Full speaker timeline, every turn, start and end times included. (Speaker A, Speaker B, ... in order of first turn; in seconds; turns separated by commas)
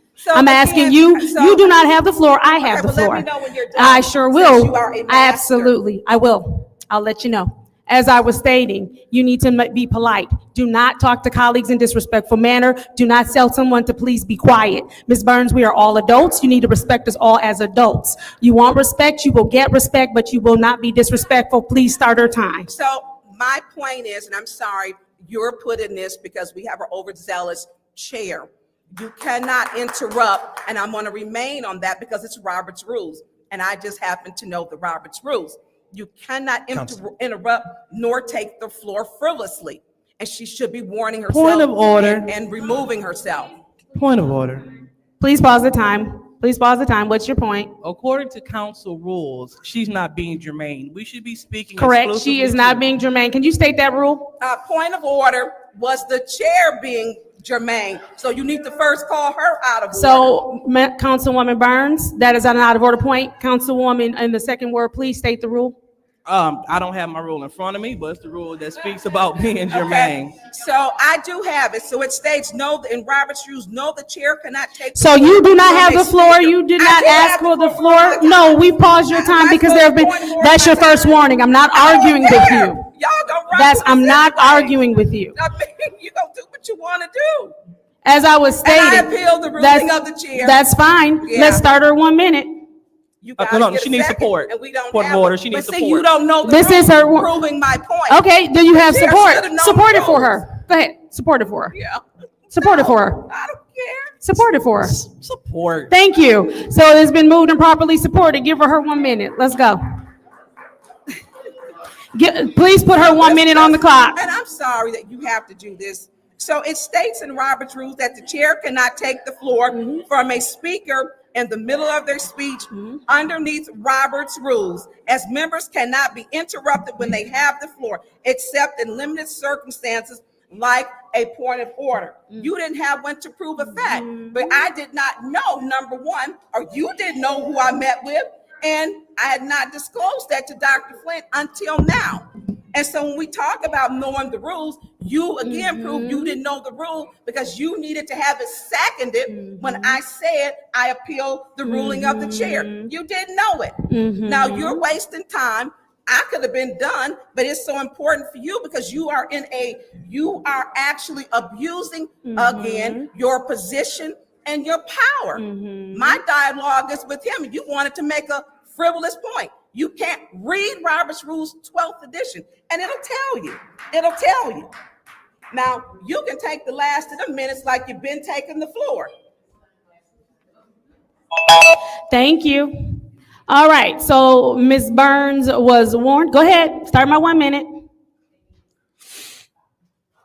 Speaker A: 0.2-1.9, Speaker B: 0.3-22.7, Speaker A: 2.6-5.8, Speaker A: 22.7-43.5, Speaker C: 41.3-42.3, Speaker C: 43.9-44.7, Speaker B: 45.2-47.7, Speaker C: 47.8-52.9, Speaker B: 51.8-54.3, Speaker A: 54.4-60.3, Speaker B: 59.9-65.8, Speaker C: 66.3-70.4, Speaker A: 69.7-84.8, Speaker B: 75.0-82.8, Speaker B: 83.5-85.3, Speaker A: 85.3-87.5, Speaker B: 88.0-92.6, Speaker A: 88.6-90.6, Speaker A: 91.2-91.7, Speaker A: 93.2-100.4, Speaker C: 93.4-96.1, Speaker B: 96.4-97.3, Speaker B: 98.1-101.8, Speaker A: 101.7-104.2, Speaker B: 102.5-103.3, Speaker B: 104.2-105.0, Speaker C: 104.9-105.9, Speaker B: 105.9-109.8, Speaker B: 112.1-114.2, Speaker A: 113.0-174.7, Speaker B: 119.8-120.0, Speaker B: 133.8-134.4, Speaker B: 145.4-146.4, Speaker B: 149.3-150.0, Speaker B: 151.7-152.9, Speaker B: 153.9-154.8, Speaker B: 162.3-163.0, Speaker B: 165.4-166.2, Speaker A: 175.5-179.1, Speaker B: 181.5-187.7